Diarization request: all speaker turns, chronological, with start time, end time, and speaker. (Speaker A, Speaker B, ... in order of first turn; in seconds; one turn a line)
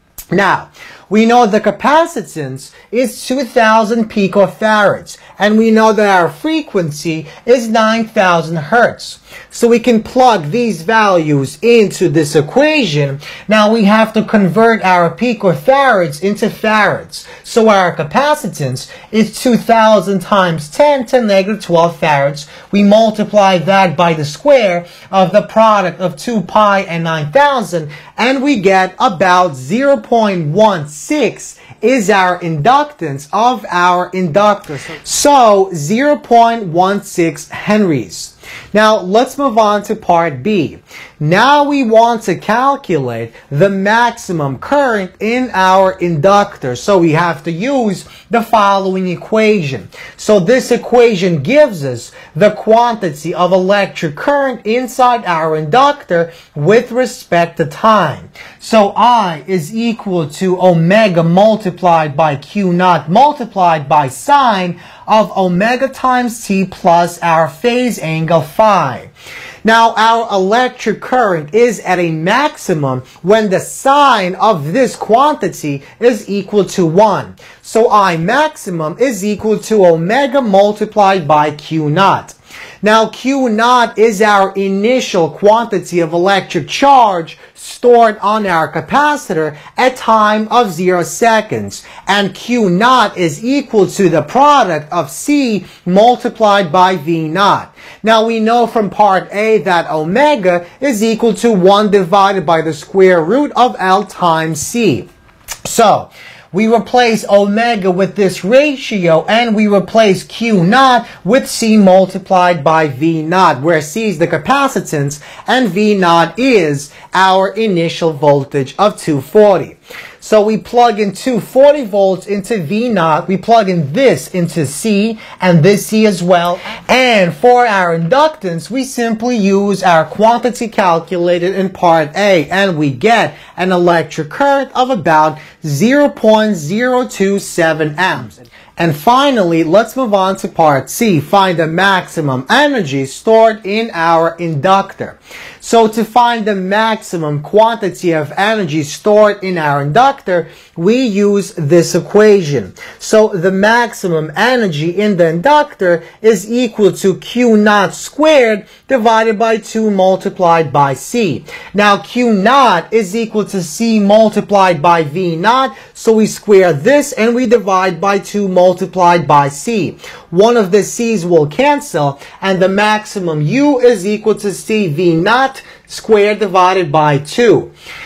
Speaker A: 0.3-69.1
Speaker A: 69.6-105.1
Speaker A: 105.6-177.7